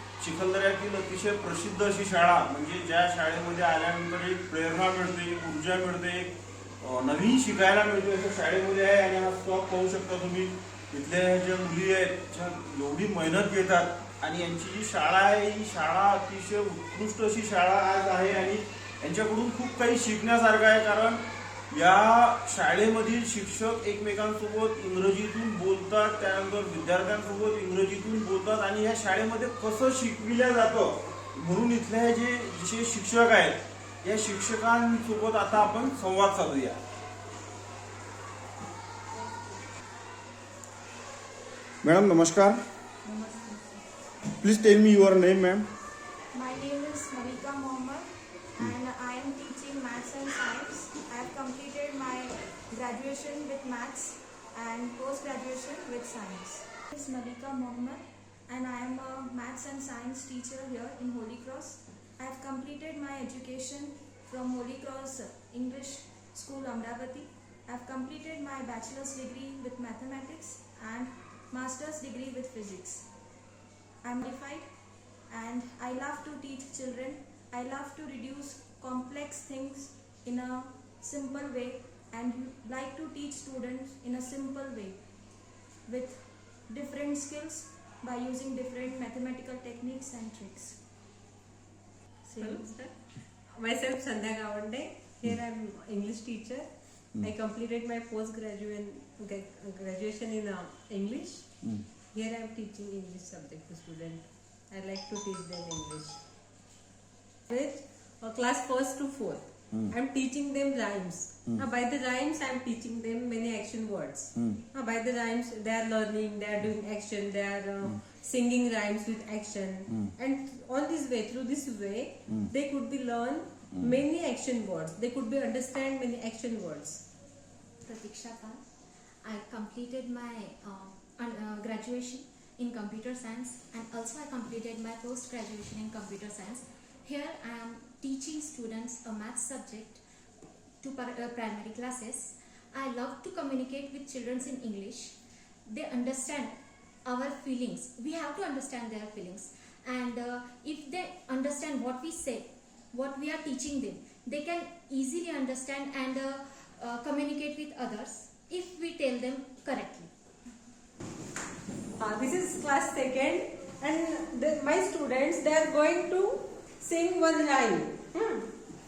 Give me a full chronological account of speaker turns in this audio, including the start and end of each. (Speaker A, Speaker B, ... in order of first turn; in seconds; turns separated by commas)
Speaker A: 0.2-36.8, Speaker A: 41.8-42.6, Speaker B: 43.0-43.8, Speaker A: 44.4-45.7, Speaker B: 46.3-73.1, Speaker B: 74.0-74.7, Speaker B: 75.3-85.0, Speaker B: 85.8-90.8, Speaker C: 92.3-92.9, Speaker B: 92.4-92.6, Speaker C: 93.5-101.6, Speaker C: 102.1-106.2, Speaker C: 107.5-127.0, Speaker D: 127.8-128.6, Speaker D: 129.2-140.0, Speaker D: 140.8-160.1, Speaker C: 162.0-168.5